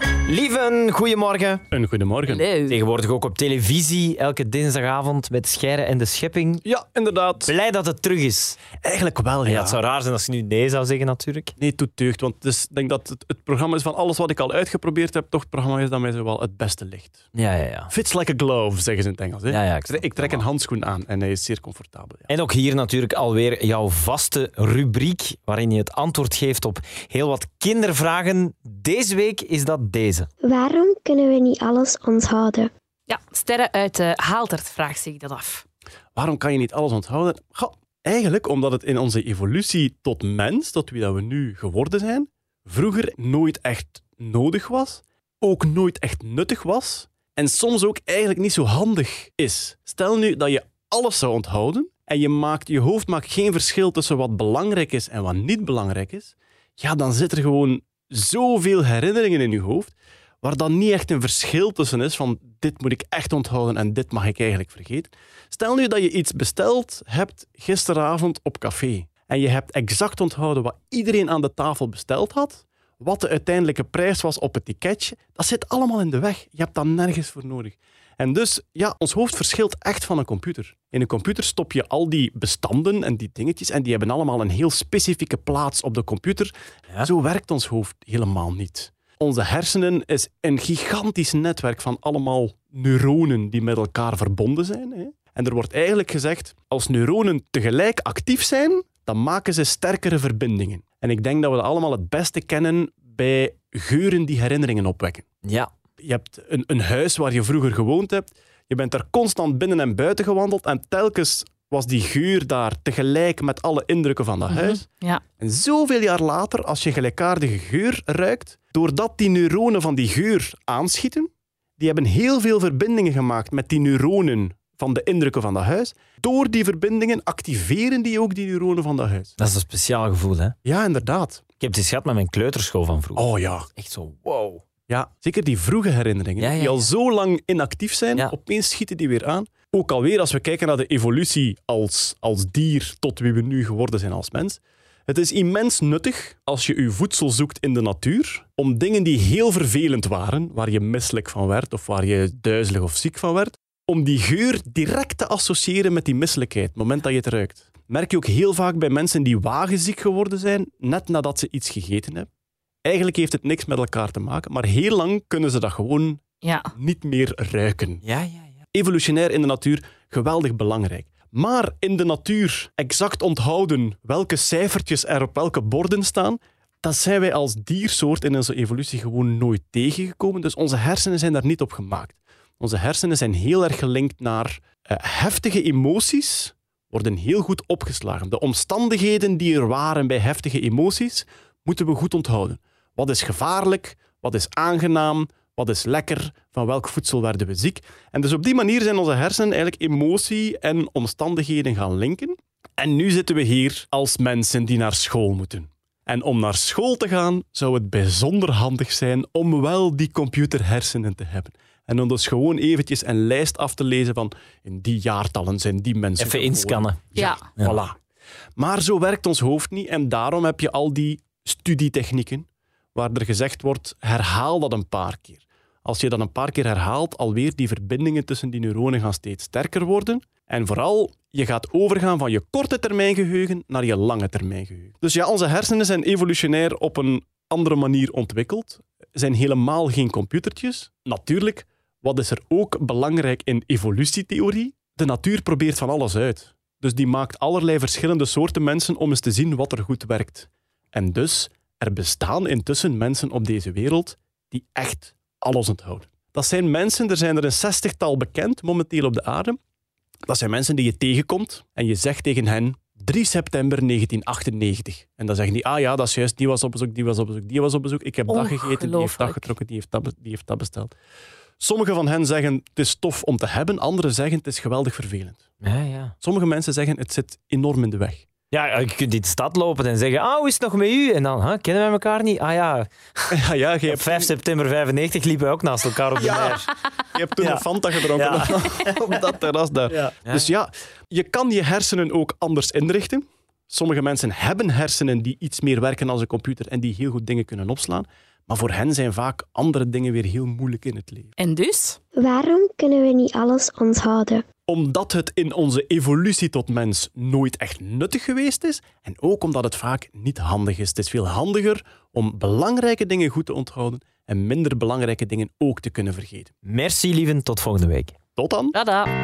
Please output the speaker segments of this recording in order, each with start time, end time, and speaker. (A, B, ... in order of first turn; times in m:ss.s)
0:00.3-0:01.6 A
0:01.7-0:02.4 B
0:02.2-0:02.8 C
0:02.6-0:06.6 A
0:06.6-0:07.5 B
0:07.4-0:08.6 A
0:08.8-0:09.8 B
0:09.4-0:11.5 A
0:11.6-0:17.2 B
0:17.3-0:17.9 A
0:17.9-0:22.3 B
0:19.5-0:20.4 A
0:22.3-0:30.3 A
0:30.4-0:32.7 D
0:33.1-0:35.6 C
0:36.1-1:45.2 B
1:45.4-1:45.7 A
1:46.0-1:54.8 B
1:54.5-1:55.2 C
1:55.4-2:09.3 B
2:09.4-2:10.5 A
2:10.6-2:11.4 B
2:11.6-2:14.6 A
2:13.1-2:13.7 B
2:14.9-2:42.3 B
2:16.4-2:16.9 A
2:42.8-2:48.0 B
2:46.4-2:46.7 C
2:48.0-2:48.6 A
2:48.7-3:38.0 B
3:36.2-3:37.8 A
3:37.1-3:37.4 C
3:38.6-4:19.6 B
4:20.3-4:30.9 B
4:28.3-4:29.4 C
4:31.6-4:35.4 B
4:35.6-4:36.1 A
4:36.2-4:38.2 B
4:38.5-4:43.3 A
4:43.3-4:44.3 B
4:43.9-4:46.7 A
4:46.1-5:01.3 B
4:47.4-4:49.1 A
4:49.9-4:50.5 A
5:01.4-5:02.0 C
5:02.2-5:04.4 D
5:04.7-5:16.5 B
5:16.6-5:18.1 A
5:18.4-5:18.8 B
5:18.7-5:19.1 C